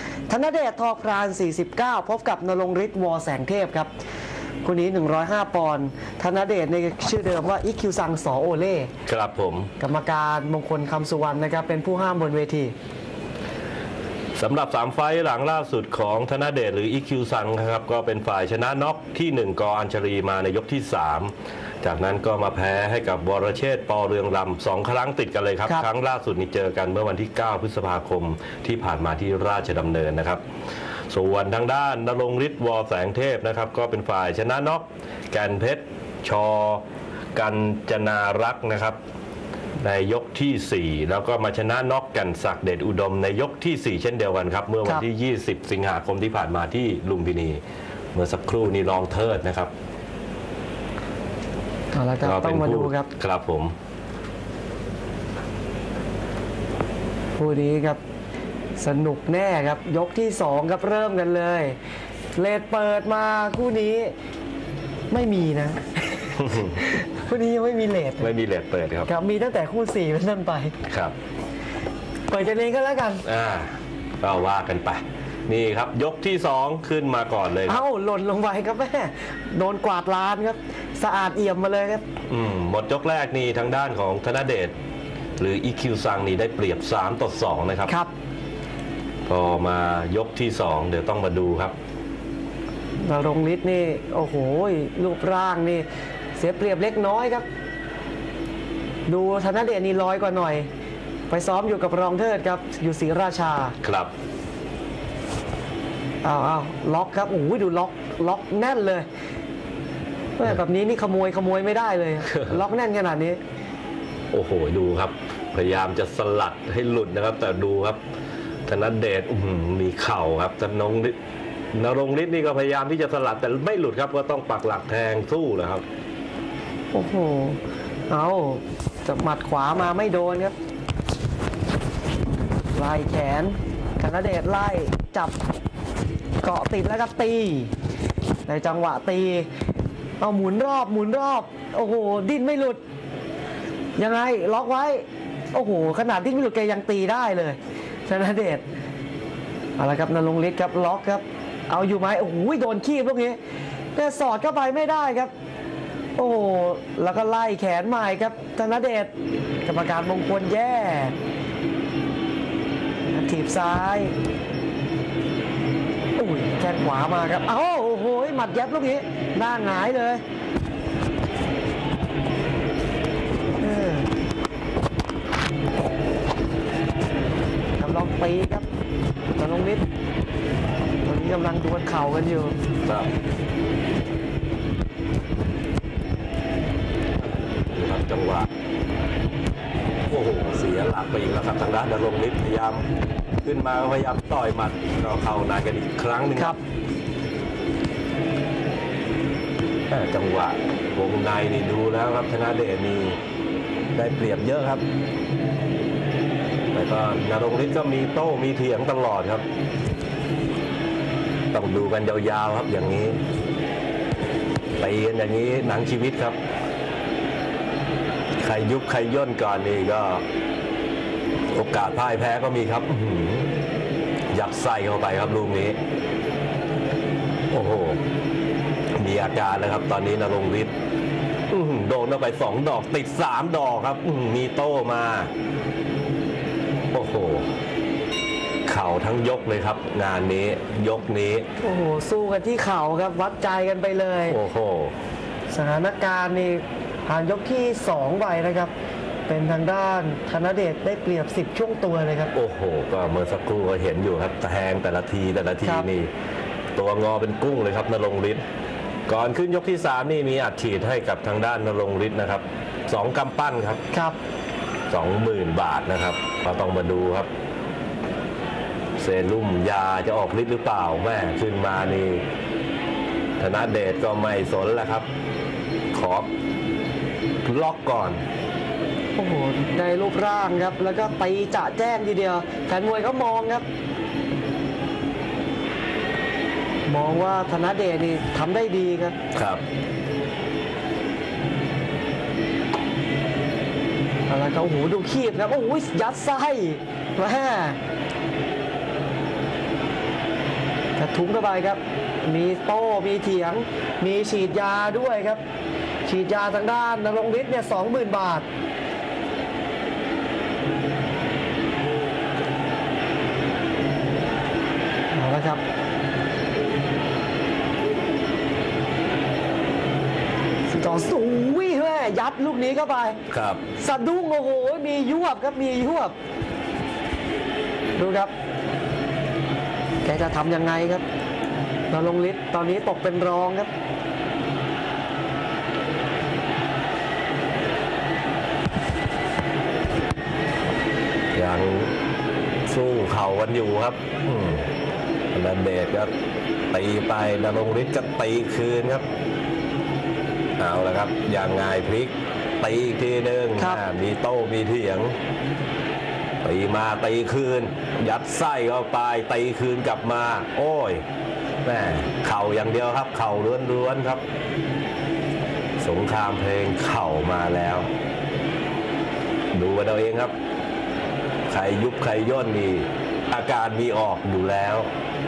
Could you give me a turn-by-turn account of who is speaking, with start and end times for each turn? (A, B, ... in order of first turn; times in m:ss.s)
0:00.3-0:03.9 A
0:04.6-0:08.9 A
0:09.1-0:09.7 B
0:09.8-0:12.8 A
0:14.4-0:30.4 B
0:31.1-0:36.8 B
0:37.4-0:39.0 B
0:39.8-0:47.6 B
0:48.1-0:49.7 B
0:51.9-0:53.1 A
0:52.2-0:53.7 B
0:57.4-0:58.0 A
0:58.8-1:01.8 A
1:02.4-1:04.1 A
1:05.1-1:08.3 A
1:06.4-1:06.8 B
1:08.2-1:09.1 B
1:09.1-1:10.8 A
1:10.9-1:11.2 B
1:12.3-1:13.3 A
1:13.2-1:17.8 B
1:17.7-1:22.0 A
1:22.3-1:24.7 B
1:25.4-1:27.9 B
1:29.3-1:31.8 B
1:33.0-1:35.9 A
1:36.4-1:37.5 A
1:39.1-1:40.7 A
1:41.3-1:43.8 A
1:43.8-1:44.1 B
1:46.2-1:49.1 A
1:50.4-1:53.4 A
1:54.3-1:58.0 B
1:58.7-2:01.2 B
2:01.7-2:05.8 B
2:06.9-2:07.6 A
2:08.1-2:10.6 A
2:12.7-2:15.4 A
2:16.4-2:17.7 A
2:18.5-2:19.5 A
2:20.2-2:22.8 A
2:24.0-2:28.6 A
2:29.8-2:33.4 A
2:34.0-2:35.3 A
2:36.2-2:39.1 A
2:39.6-2:41.2 A
2:43.1-2:44.2 A
2:46.2-2:50.2 A
2:53.6-2:54.1 A
2:57.8-2:58.7 A
2:59.4-2:59.9 A
3:01.0-3:02.6 A
3:07.7-3:08.5 B
3:10.1-3:12.8 B
3:13.4-3:16.6 B
3:19.9-3:23.2 B
3:24.0-3:24.8 B
3:26.7-3:29.4 B
3:31.5-3:33.2 B
3:34.8-3:36.4 B
3:38.4-3:40.2 B
3:41.5-3:43.5 B
3:44.3-3:45.8 B
3:47.5-3:48.0 B
3:49.0-3:50.7 B
3:51.5-3:55.3 B
3:56.9-3:57.5 B
3:58.7-4:01.4 B
4:01.6-4:04.4 A
4:04.3-4:04.9 B
4:05.5-4:08.7 A
4:09.3-4:12.3 A
4:12.3-4:16.1 B
4:16.8-4:18.4 B
4:19.1-4:23.8 B
4:23.9-4:24.2 A
4:24.9-4:27.3 B
4:29.0-4:32.2 B
4:33.4-4:35.1 B
4:35.9-4:36.3 B
4:37.4-4:38.2 B
4:39.2-4:43.6 A
4:46.9-4:49.2 A
4:49.3-4:49.6 B
4:54.3-4:57.8 A
5:01.0-5:05.4 A
5:06.0-5:08.5 A
5:15.1-5:15.6 A
5:20.7-5:23.2 A
5:23.3-5:23.6 B
5:23.8-5:26.2 A
5:28.0-5:28.3 A
5:30.0-5:31.0 A
5:31.9-5:33.7 A
5:41.3-5:41.9 B
5:42.7-5:44.7 B
5:45.3-5:46.1 B
5:46.7-5:49.0 B
5:50.6-5:55.2 B
5:56.4-6:01.0 B
6:01.6-6:04.2 B
6:05.8-6:07.9 B
6:09.5-6:10.3 B
6:11.5-6:14.9 B